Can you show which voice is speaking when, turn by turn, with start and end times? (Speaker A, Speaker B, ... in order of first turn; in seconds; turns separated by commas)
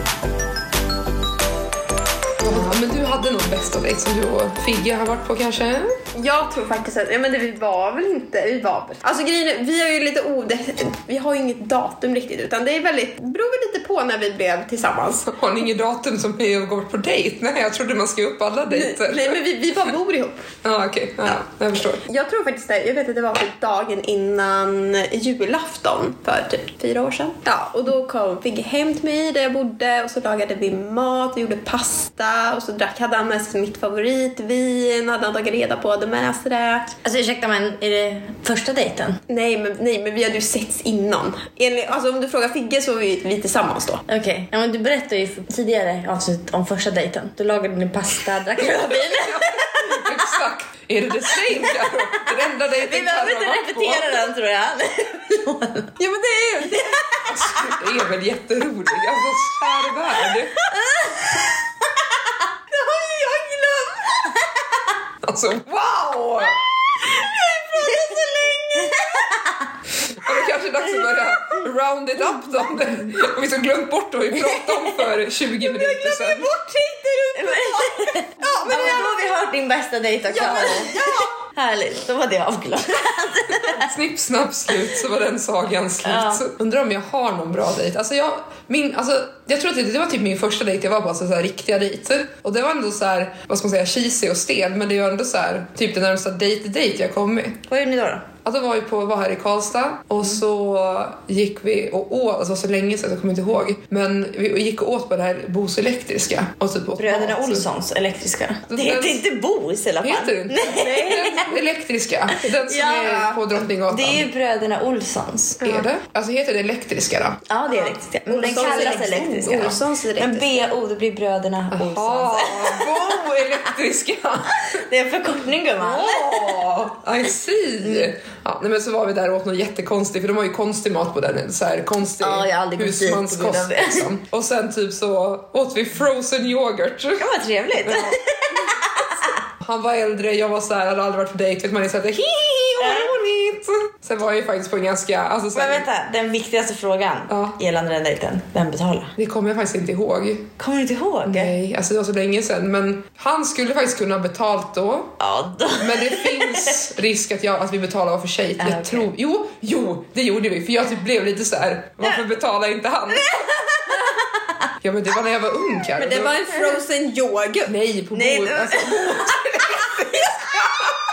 Speaker A: 2.4-6.0, Speaker B: 6.1-15.3, Speaker A: 15.3-19.4, Speaker B: 18.7-20.5, Speaker A: 20.6-22.0, Speaker B: 22.0-37.0, Speaker C: 37.0-39.2, Speaker B: 39.3-44.0, Speaker C: 44.1-50.2, Speaker A: 48.6-54.2, Speaker C: 51.4-56.0, Speaker B: 56.0-56.9, Speaker A: 56.4-60.6, Speaker C: 60.3-61.6, Speaker B: 62.7-64.3, Speaker A: 65.2-66.6, Speaker B: 67.0-69.2, Speaker C: 68.8-69.5, Speaker A: 70.0-76.5, Speaker C: 74.5-74.8, Speaker B: 75.6-79.2, Speaker C: 77.3-83.9, Speaker B: 80.3-81.3, Speaker A: 83.5-97.6, Speaker C: 86.0-86.4, Speaker C: 97.7-98.3, Speaker A: 98.4-107.6, Speaker C: 107.0-111.6, Speaker A: 108.7-109.2, Speaker A: 110.0-114.3, Speaker C: 112.6-115.8, Speaker A: 115.6-117.4, Speaker C: 117.5-123.4, Speaker B: 117.7-120.5, Speaker A: 118.4-119.7, Speaker A: 121.7-124.8, Speaker C: 124.6-126.8, Speaker A: 125.8-137.3, Speaker C: 127.8-128.1, Speaker C: 132.2-134.1, Speaker C: 137.2-139.4, Speaker A: 137.8-145.9, Speaker C: 142.8-143.2, Speaker C: 145.5-149.1, Speaker A: 147.3-147.6, Speaker A: 149.2-150.5, Speaker C: 150.6-151.5, Speaker A: 151.2-155.2, Speaker C: 155.2-156.8, Speaker A: 155.8-163.6, Speaker C: 158.6-159.1, Speaker C: 163.3-164.3, Speaker B: 163.8-164.2, Speaker A: 164.8-166.4, Speaker B: 166.0-167.7, Speaker A: 167.7-170.9, Speaker C: 168.1-170.4, Speaker B: 169.9-170.7